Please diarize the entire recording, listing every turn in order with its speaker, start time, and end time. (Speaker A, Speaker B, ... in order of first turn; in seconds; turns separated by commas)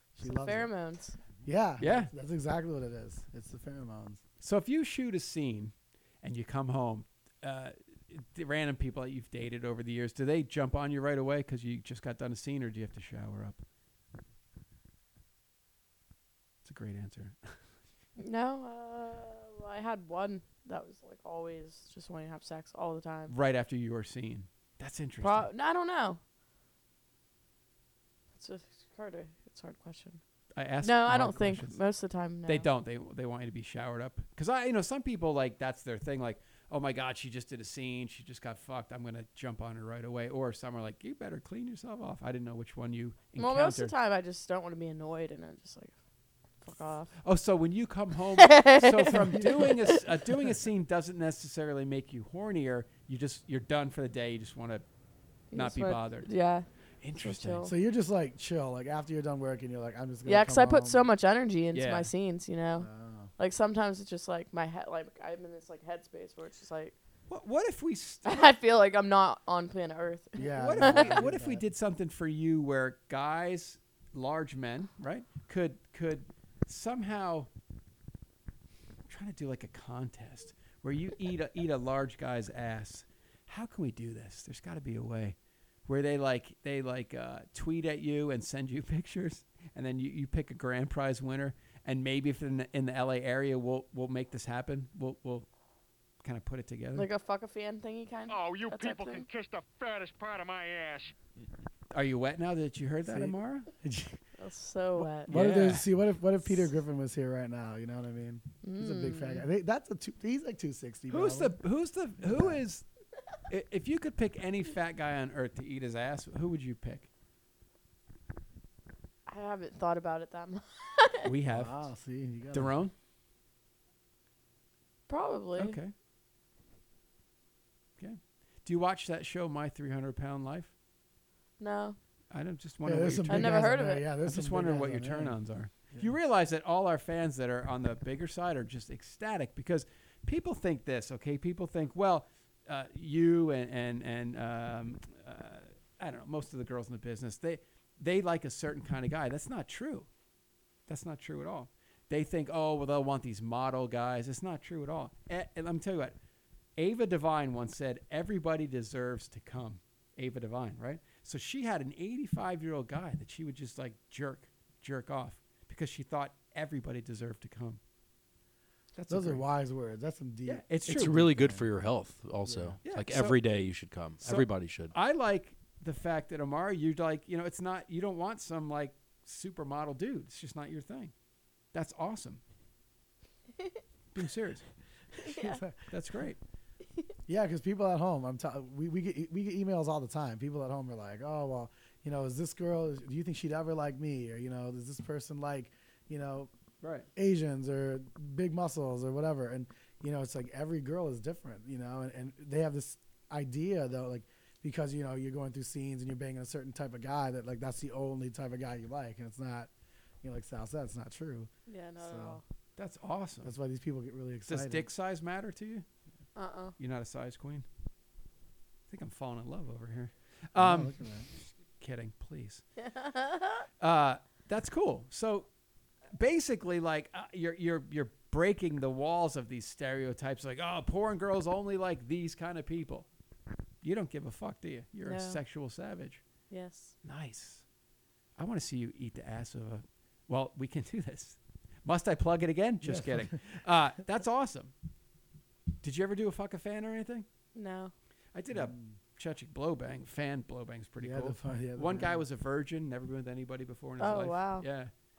Speaker A: 0.2-0.7, Speaker B: 0.2-1.2, Speaker A: 1.4-4.2, Speaker C: 1.8-2.1, Speaker C: 4.4-13.6, Speaker C: 16.6-17.6, Speaker B: 18.2-23.3, Speaker C: 23.3-25.5, Speaker B: 25.2-26.2, Speaker B: 28.4-30.2, Speaker C: 30.6-31.8, Speaker B: 30.8-32.7, Speaker C: 32.5-43.9, Speaker B: 43.4-46.0, Speaker B: 46.6-47.1, Speaker C: 47.2-54.8, Speaker B: 48.4-50.0, Speaker A: 49.2-49.7, Speaker B: 55.5-56.7, Speaker C: 55.5-56.3, Speaker C: 57.0-57.7, Speaker B: 57.2-57.7, Speaker A: 57.6-61.1, Speaker B: 60.3-67.0, Speaker C: 61.7-62.1, Speaker A: 62.8-63.3, Speaker C: 67.3-68.5, Speaker B: 68.2-71.2, Speaker A: 70.4-71.6, Speaker C: 70.5-77.5, Speaker C: 79.1-95.5, Speaker C: 96.2-97.1, Speaker B: 97.0-99.3, Speaker D: 98.3-101.1, Speaker C: 101.9-103.7, Speaker A: 103.0-104.2, Speaker B: 104.4-105.3, Speaker A: 105.0-111.6, Speaker C: 105.3-105.9, Speaker B: 108.6-109.5, Speaker C: 111.1-112.8, Speaker A: 112.2-112.6, Speaker C: 113.5-117.1, Speaker B: 119.3-121.3, Speaker C: 121.2-121.7, Speaker A: 121.5-122.8, Speaker C: 122.5-122.9, Speaker B: 125.1-125.8, Speaker C: 125.6-125.9, Speaker C: 128.0-130.7, Speaker B: 131.6-132.0, Speaker C: 132.3-150.1, Speaker A: 132.8-135.4, Speaker B: 133.3-134.1, Speaker C: 150.9-156.2, Speaker C: 156.8-167.8, Speaker C: 168.9-169.5, Speaker A: 169.1-171.7, Speaker C: 170.5-171.2, Speaker E: 170.9-174.9, Speaker A: 172.5-172.8, Speaker C: 172.8-173.4, Speaker C: 174.2-181.1, Speaker C: 181.7-182.4, Speaker C: 184.1-184.6, Speaker A: 185.2-185.8, Speaker B: 185.2-185.6, Speaker C: 185.9-186.4, Speaker A: 187.3-196.5, Speaker C: 196.8-197.1, Speaker A: 197.2-209.7, Speaker A: 210.2-212.4, Speaker B: 211.7-212.4, Speaker C: 212.8-213.5, Speaker A: 213.4-214.9, Speaker C: 214.5-215.8, Speaker B: 216.3-216.8, Speaker C: 216.8-217.7, Speaker C: 218.9-221.0, Speaker A: 220.6-221.3, Speaker C: 221.8-222.6, Speaker B: 222.8-223.7, Speaker C: 223.8-225.5, Speaker C: 226.1-233.1, Speaker C: 233.8-236.2, Speaker B: 235.1-235.4, Speaker B: 236.5-236.9, Speaker C: 237.0-237.6, Speaker C: 238.4-244.7, Speaker A: 242.8-243.4, Speaker C: 245.8-247.3, Speaker B: 247.6-247.9, Speaker C: 248.3-254.9, Speaker A: 248.5-249.0, Speaker A: 251.0-252.3, Speaker B: 254.0-254.7